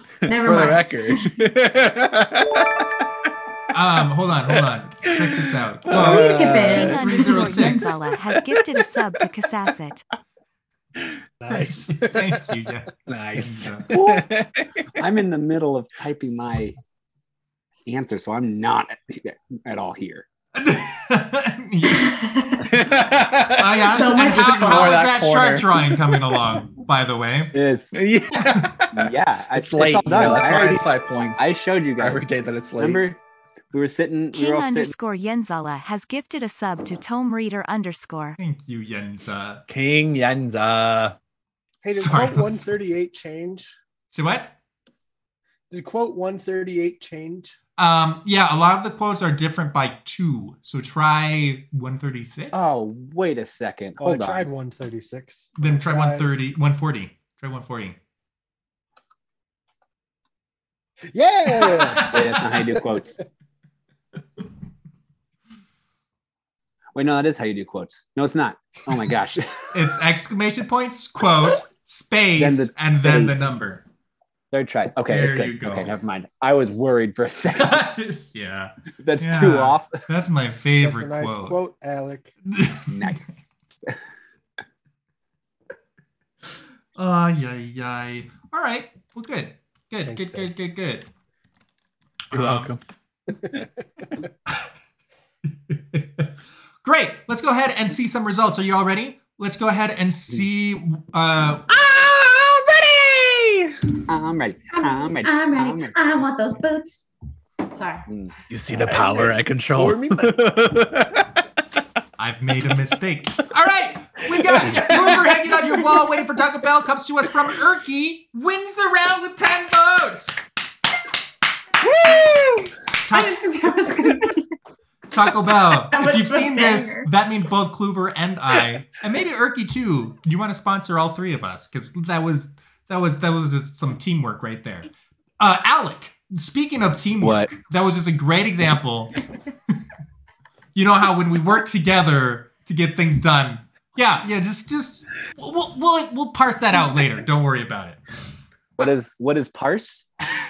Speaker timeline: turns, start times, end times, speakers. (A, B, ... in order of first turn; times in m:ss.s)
0:00.2-0:02.9 A
0:00.2-0:01.4 B
0:03.7-0:08.0 C
0:04.5-0:07.4 A
0:05.9-0:07.8 B
0:06.7-0:10.0 D
0:08.3-0:09.3 A
0:11.4-0:12.5 E
0:11.9-0:13.9 C
0:13.1-0:14.8 A
0:13.9-0:14.3 F
0:15.0-0:16.8 F
0:17.9-0:20.3 F
0:20.6-0:22.1 C
0:21.8-0:22.7 B
0:22.6-0:26.0 A
0:23.5-0:27.5 C
0:23.9-0:25.0 B
0:27.5-0:27.9 F
0:27.9-0:29.0 A
0:28.9-0:33.2 F
0:29.5-0:33.0 A
0:33.7-0:34.9 F
0:34.3-0:38.4 D
0:38.4-0:39.6 C
0:39.7-0:41.2 A
0:41.8-0:43.7 E
0:41.9-0:42.7 C
0:44.1-0:44.5 C
0:45.7-0:47.6 E
0:47.8-0:52.7 C
0:52.5-0:54.5 F
0:54.0-0:56.3 E
0:55.6-0:58.0 C
1:01.1-1:03.2 E
1:01.6-1:02.6 C
1:02.1-1:03.2 F
1:07.0-1:09.7 F
1:09.7-1:13.8 C
1:12.4-1:13.8 F
1:14.5-1:17.8 F
1:15.1-1:16.1 C
1:17.6-1:21.6 C
1:19.0-1:20.0 F
1:20.8-1:22.3 E
1:22.5-1:23.2 C
1:22.9-1:24.0 F
1:27.0-1:31.1 C
1:30.1-1:30.5 E
1:32.3-1:32.7 C
1:32.3-1:32.8 A
1:35.7-1:36.3 C
1:36.8-1:41.7 C
1:41.7-1:43.9 A
1:44.1-1:46.0 F
1:44.7-1:47.1 B
1:47.7-1:48.1 B
1:48.1-1:48.3 F
1:48.5-1:51.5 A
1:48.9-1:50.4 E
1:52.2-2:00.4 C
1:54.5-1:55.1 A
2:01.8-2:02.7 A
2:03.1-2:03.4 C
2:03.1-2:04.5 B
2:05.1-2:19.2 C
2:05.9-2:07.1 B
2:17.2-2:17.5 F
2:20.8-2:28.0 C
2:28.8-2:30.1 F